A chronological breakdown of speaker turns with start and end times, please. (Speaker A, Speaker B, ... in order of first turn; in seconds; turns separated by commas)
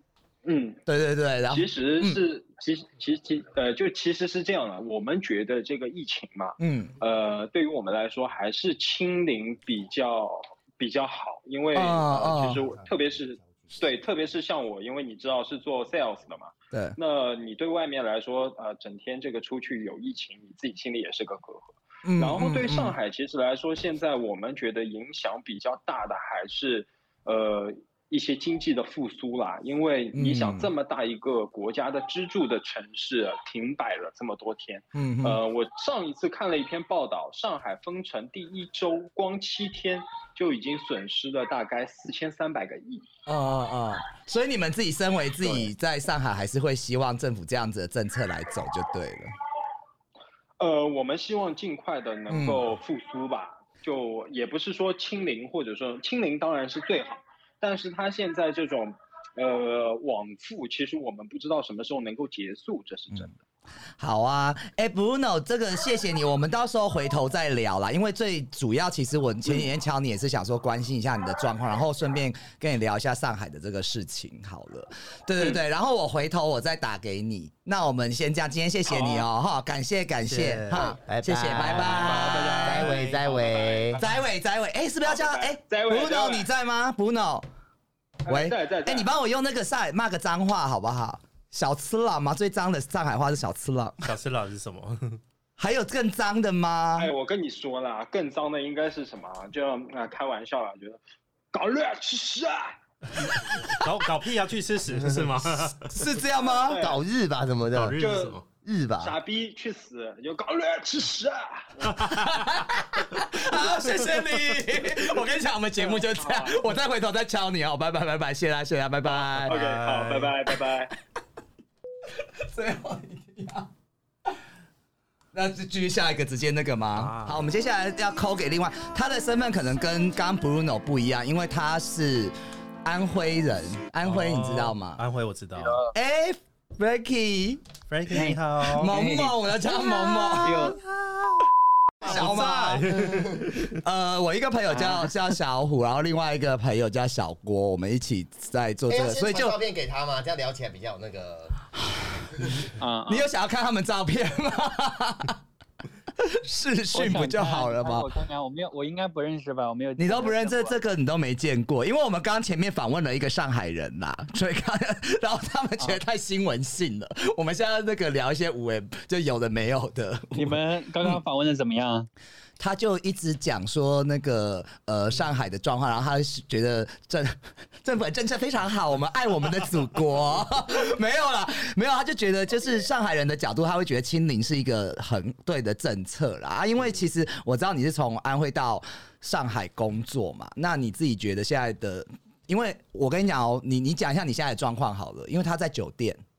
Speaker A: 0.5-0.8, Speaker B: 0.9-2.2, Speaker A: 1.5-43.1, Speaker B: 6.6-7.0, Speaker B: 11.7-12.6, Speaker B: 16.7-17.0, Speaker B: 22.0-23.0, Speaker B: 30.1-30.7, Speaker B: 34.9-35.4, Speaker B: 43.3-49.4, Speaker A: 45.4-45.7, Speaker A: 50.6-63.3, Speaker B: 52.3-52.7, Speaker B: 64.0-83.0, Speaker A: 78.9-79.3, Speaker C: 80.3-80.9, Speaker D: 80.7-84.0, Speaker A: 81.6-84.0, Speaker C: 81.7-83.0, Speaker B: 84.0-87.5, Speaker A: 85.0-86.5, Speaker A: 88.2-89.1, Speaker B: 88.3-94.1, Speaker C: 94.0-95.2, Speaker B: 95.6-97.1, Speaker A: 97.0-101.0, Speaker A: 101.5-102.8, Speaker C: 103.7-106.0, Speaker B: 105.9-106.8, Speaker A: 106.5-107.0, Speaker D: 106.8-108.0, Speaker C: 107.7-108.5, Speaker A: 108.0-108.4, Speaker D: 108.6-109.1, Speaker A: 109.0-111.9, Speaker C: 111.8-112.1, Speaker B: 112.0-119.6, Speaker A: 115.8-116.6, Speaker A: 119.1-121.0, Speaker C: 119.4-120.3, Speaker B: 122.2-123.7, Speaker B: 125.3-135.0, Speaker C: 127.0-127.4, Speaker C: 134.1-135.8, Speaker B: 135.9-137.6, Speaker C: 137.9-138.9, Speaker E: 138.1-140.8, Speaker B: 138.7-140.8, Speaker B: 142.0-142.9, Speaker C: 142.0-143.8, Speaker B: 143.8-149.6, Speaker E: 144.7-145.1, Speaker D: 148.9-151.6, Speaker E: 152.8-153.3, Speaker B: 153.1-155.4, Speaker B: 156.2-158.1, Speaker E: 156.9-160.8, Speaker B: 160.0-171.1, Speaker E: 170.3-172.1, Speaker B: 172.6-196.2